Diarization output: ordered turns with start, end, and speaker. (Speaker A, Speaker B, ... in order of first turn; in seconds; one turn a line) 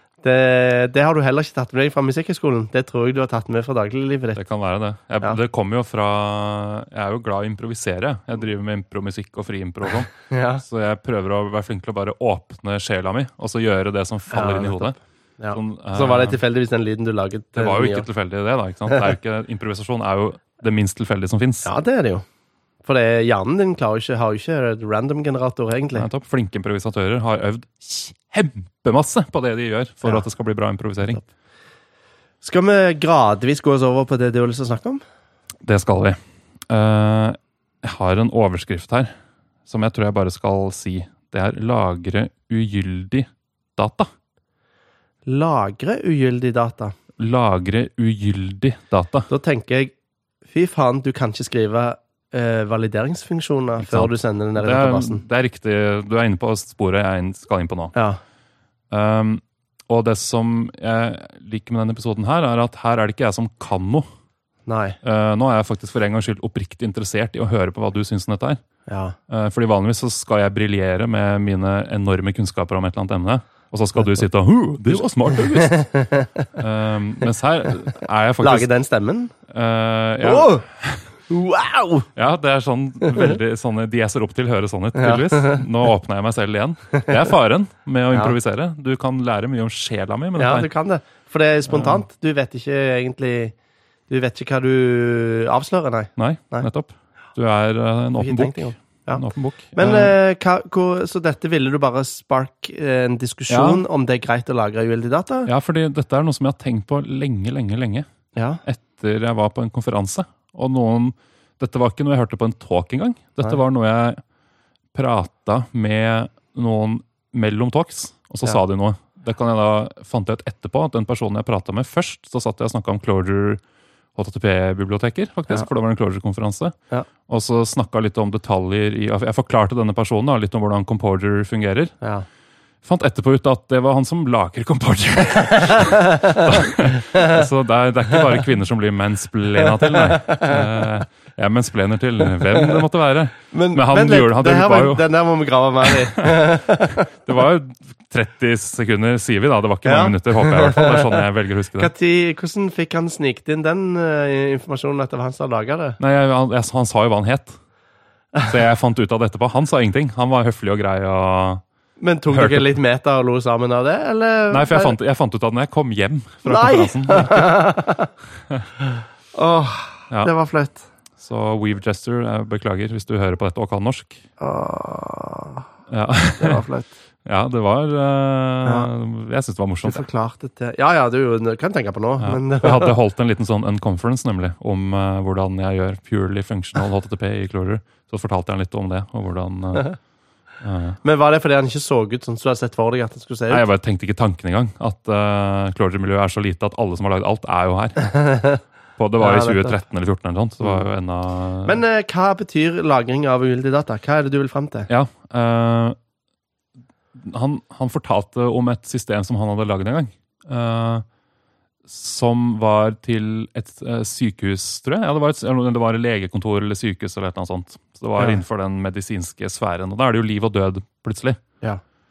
Speaker A: 0.2-4.4
Speaker B: 4.3-14.9
Speaker A: 10.3-10.6
Speaker A: 14.3-18.1
Speaker B: 15.5-16.4
Speaker B: 17.6-21.7
Speaker A: 21.6-22.2
Speaker A: 22.8-26.1
Speaker B: 25.9-31.2
Speaker A: 32.4-35.0
Speaker B: 35.6-36.2
Speaker B: 36.7-39.1
Speaker B: 39.7-44.1
Speaker A: 45.2-46.9
Speaker B: 47.2-49.3
Speaker A: 49.3-49.9
Speaker A: 50.5-55.2
Speaker B: 53.8-57.9
Speaker A: 57.9-58.2
Speaker B: 58.9-64.1
Speaker A: 64.7-65.0
Speaker B: 65.0-68.6
Speaker A: 68.9-69.2
Speaker B: 69.3-75.9
Speaker A: 74.9-76.5
Speaker B: 76.5-78.7
Speaker A: 78.4-79.3
Speaker B: 79.5-81.1
Speaker A: 80.2-80.6
Speaker A: 81.3-82.1
Speaker B: 82.2-90.7
Speaker A: 84.9-85.7
Speaker A: 90.4-93.5
Speaker B: 91.7-92.0
Speaker A: 94.1-96.7
Speaker B: 96.2-100.2
Speaker A: 98.2-105.5
Speaker B: 103.5-103.8
Speaker B: 105.5-108.1
Speaker A: 108.3-108.6
Speaker B: 108.6-114.2
Speaker B: 114.9-123.6
Speaker B: 124.1-126.7
Speaker B: 127.3-131.9
Speaker B: 132.8-145.1
Speaker A: 135.7-137.4
Speaker A: 139.6-140.9
Speaker A: 142.4-142.8
Speaker A: 143.5-147.1
Speaker B: 145.8-151.9
Speaker A: 149.8-151.2
Speaker A: 151.8-156.0
Speaker B: 156.0-157.6
Speaker B: 158.4-161.6
Speaker A: 162.0-164.9
Speaker B: 162.3-162.7
Speaker B: 164.5-167.6
Speaker A: 166.4-168.1
Speaker A: 168.8-170.8
Speaker B: 171.2-174.2
Speaker A: 174.4-175.7
Speaker B: 175.9-176.6
Speaker A: 176.4-176.9
Speaker B: 177.2-180.0
Speaker A: 179.8-182.9
Speaker B: 182.2-190.0
Speaker B: 190.6-191.0
Speaker A: 191.0-193.6
Speaker B: 193.5-198.4
Speaker A: 198.0-198.6
Speaker B: 199.0-201.8
Speaker A: 199.2-199.8
Speaker A: 201.7-204.9
Speaker B: 204.9-206.0
Speaker B: 207.2-211.0
Speaker B: 211.9-221.4